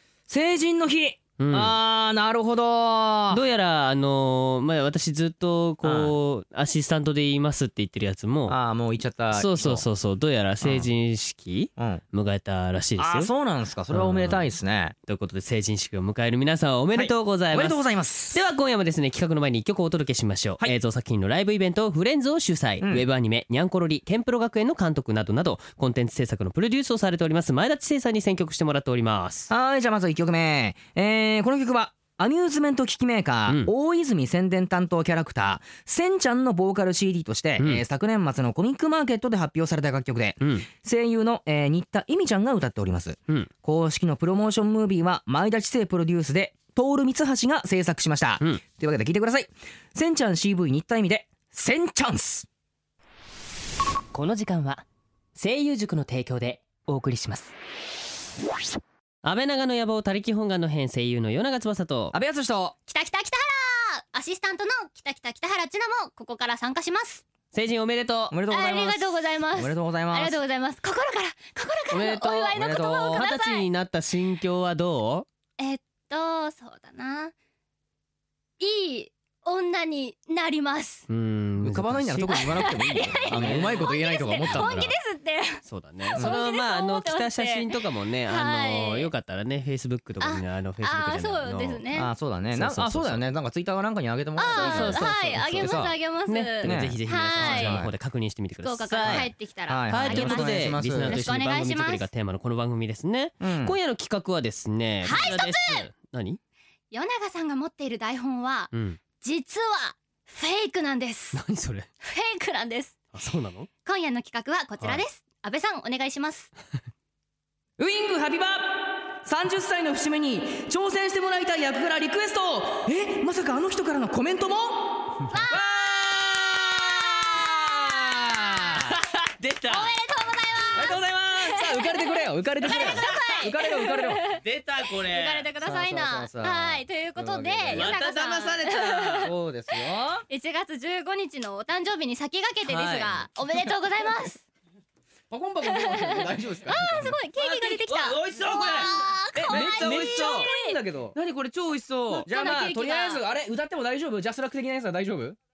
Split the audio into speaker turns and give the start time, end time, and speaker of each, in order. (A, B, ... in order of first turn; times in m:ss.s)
0:00.3-0:03.4 A
0:01.4-0:01.8 B
0:03.3-0:08.6 B
0:05.8-0:06.1 A
0:08.5-0:09.8 A
0:09.3-0:13.3 B
0:10.6-0:10.9 A
0:11.8-0:12.0 A
0:13.0-0:15.0 A
0:13.9-0:14.5 B
0:15.1-0:17.8 B
0:16.9-0:18.4 A
0:18.3-0:29.5 B
0:29.5-0:52.5 A
0:37.6-0:37.8 B
0:40.4-0:40.7 B
0:54.1-0:54.8 B
0:55.4-0:57.5 B
0:59.2-1:02.2 B
1:02.1-1:02.8 A
1:02.9-1:07.2 C
1:07.5-1:08.4 B
1:08.3-1:10.4 A
1:08.5-1:13.7 C
1:11.9-1:15.3 B
1:12.5-1:13.3 A
1:15.6-1:17.3 C
1:18.6-1:21.1 C
1:21.1-1:22.8 B
1:21.6-1:25.0 A
1:22.3-1:27.8 C
1:23.3-1:23.9 B
1:24.4-1:24.8 B
1:25.6-1:31.8 B
1:28.3-1:29.1 C
1:30.2-1:32.1 C
1:31.9-1:36.0 A
1:32.5-1:33.2 B
1:34.4-1:37.8 C
1:34.5-1:39.3 B
1:36.6-1:37.9 A
1:38.6-1:42.1 C
1:39.0-1:41.3 A
1:39.9-1:46.4 B
1:43.4-1:43.8 A
1:45.0-1:45.9 C
1:46.9-1:51.4 C
1:48.7-1:49.0 B
1:51.3-1:51.9 B
1:52.0-1:53.0 C
1:53.1-1:53.7 B
1:53.8-1:56.5 C
1:57.8-2:04.9 A
2:05.3-2:05.6 C
2:05.5-2:09.0 A
2:07.1-2:08.8 C
2:08.9-2:09.9 B
2:09.7-2:14.4 C
2:10.7-2:14.2 A
2:12.7-2:13.4 B
2:14.3-2:15.5 B
2:15.0-2:19.3 C
2:15.6-2:18.0 A
2:17.7-2:19.3 B
2:19.2-2:20.2 A
2:20.3-2:24.4 C
2:22.7-2:23.3 B
2:25.3-2:27.2 A
2:25.6-2:30.8 C
2:27.4-2:28.9 B
2:28.3-2:31.2 A
2:29.4-2:30.5 B
2:31.2-2:32.3 B
2:32.2-2:33.2 C
2:32.3-2:35.4 A